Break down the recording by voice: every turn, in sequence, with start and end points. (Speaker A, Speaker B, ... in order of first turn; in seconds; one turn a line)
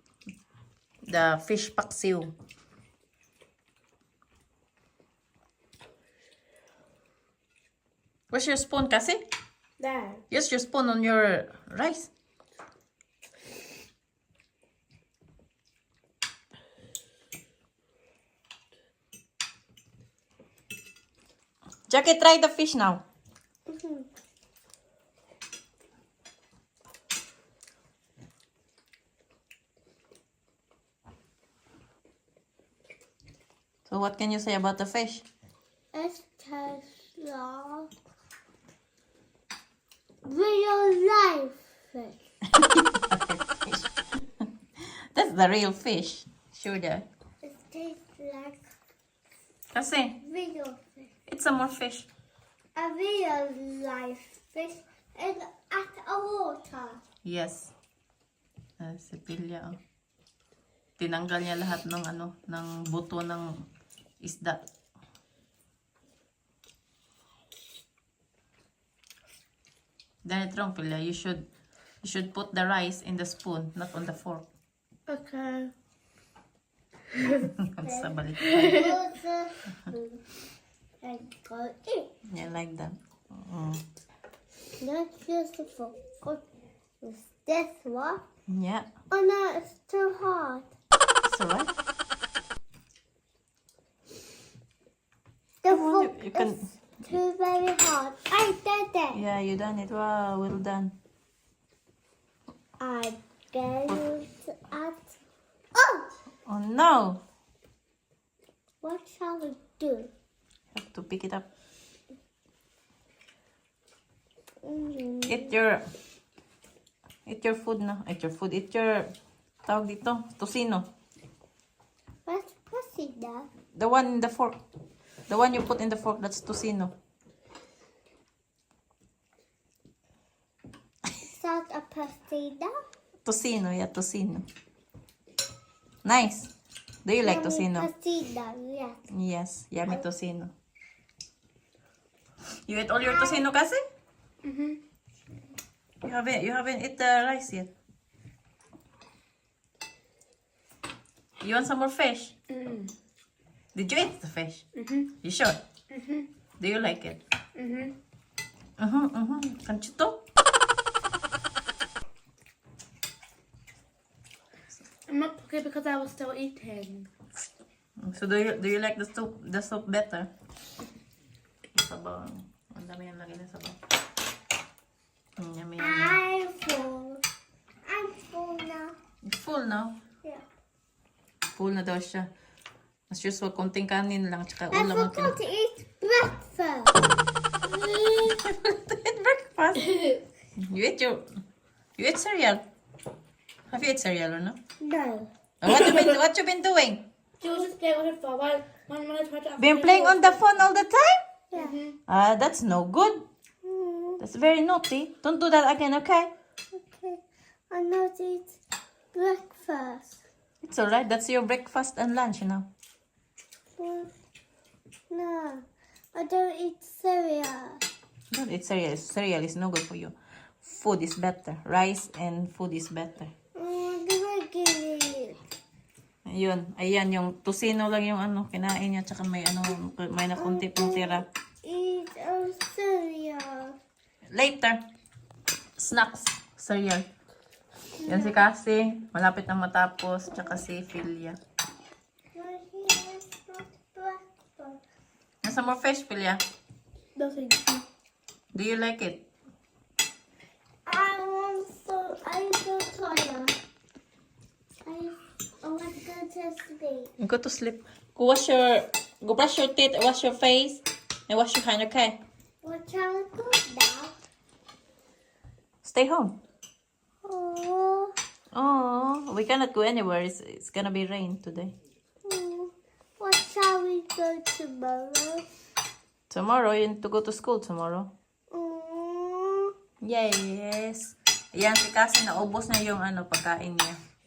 Speaker A: 1.1-2.3
Speaker A: 8.3-9.2
Speaker B: 9.8-10.2
Speaker A: 10.3-12.1
Speaker A: 21.9-23.0
Speaker C: 23.7-24.1
Speaker A: 33.9-35.2
Speaker C: 35.9-37.9
Speaker C: 40.2-42.2
Speaker A: 42.6-43.9
Speaker A: 45.1-47.0
Speaker C: 47.4-48.6
Speaker A: 49.7-50.2
Speaker C: 50.2-51.1
Speaker A: 51.3-52.1
Speaker C: 52.7-57.0
Speaker A: 57.2-57.7
Speaker A: 58.8-59.8
Speaker A: 61.0-63.6
Speaker A: 64.2-64.6
Speaker A: 70.2-71.4
Speaker A: 72.0-74.4
Speaker B: 75.1-75.7
Speaker A: 77.4-78.9
Speaker C: 77.8-80.2
Speaker B: 78.4-78.9
Speaker C: 81.0-82.1
Speaker A: 82.3-83.8
Speaker C: 84.8-86.4
Speaker C: 87.0-88.2
Speaker A: 88.5-88.9
Speaker C: 89.1-90.7
Speaker A: 91.2-91.7
Speaker C: 95.6-99.2
Speaker A: 95.7-96.7
Speaker A: 99.1-100.9
Speaker C: 102.8-105.1
Speaker C: 105.7-106.1
Speaker A: 106.5-107.2
Speaker C: 108.8-110.1
Speaker A: 110.7-111.5
Speaker C: 114.6-115.5
Speaker A: 115.3-115.8
Speaker A: 117.2-119.1
Speaker A: 119.6-120.9
Speaker C: 122.2-123.5
Speaker A: 123.7-124.6
Speaker A: 125.3-126.9
Speaker C: 131.2-132.7
Speaker A: 133.2-134.5
Speaker A: 136.0-136.5
Speaker A: 137.0-137.9
Speaker C: 137.2-139.1
Speaker A: 139.1-140.5
Speaker A: 142.7-143.8
Speaker B: 144.4-144.8
Speaker A: 146.0-147.7
Speaker A: 151.4-152.3
Speaker B: 152.5-152.9
Speaker A: 153.7-154.6
Speaker B: 154.7-155.1
Speaker A: 155.2-155.6
Speaker B: 155.9-156.3
Speaker A: 156.6-157.2
Speaker B: 157.6-157.9
Speaker A: 158.8-160.2
Speaker B: 165.1-167.1
Speaker A: 168.0-170.3
Speaker A: 171.7-173.8
Speaker A: 175.4-176.2
Speaker C: 175.8-177.2
Speaker C: 177.8-178.9
Speaker A: 179.2-179.9
Speaker A: 181.6-182.3
Speaker A: 183.1-185.3
Speaker C: 184.7-187.0
Speaker A: 187.6-191.2
Speaker A: 192.0-192.6
Speaker A: 193.7-194.6
Speaker C: 194.8-195.3
Speaker A: 195.6-197.0
Speaker B: 197.4-200.4
Speaker A: 199.6-201.2
Speaker C: 201.5-201.8
Speaker B: 201.5-201.9
Speaker A: 202.1-203.2
Speaker C: 203.6-204.2
Speaker A: 204.2-206.3
Speaker C: 206.7-208.6
Speaker C: 209.1-210.2
Speaker A: 210.6-212.7
Speaker C: 213.8-214.1
Speaker C: 215.1-217.8
Speaker A: 218.3-223.3
Speaker C: 223.5-225.4
Speaker A: 226.2-231.2
Speaker C: 230.4-233.7
Speaker A: 234.3-234.8
Speaker A: 235.8-237.1
Speaker A: 238.0-241.4
Speaker C: 242.3-244.8
Speaker A: 245.4-246.4
Speaker B: 247.2-247.8
Speaker A: 248.5-249.2
Speaker C: 250.8-253.5
Speaker C: 254.8-257.1
Speaker A: 257.2-262.2
Speaker C: 262.6-264.1
Speaker A: 265.8-266.3
Speaker C: 267.2-268.1
Speaker A: 268.5-271.7
Speaker C: 272.2-275.4
Speaker A: 276.3-278.1
Speaker C: 278.5-279.7
Speaker A: 280.0-284.0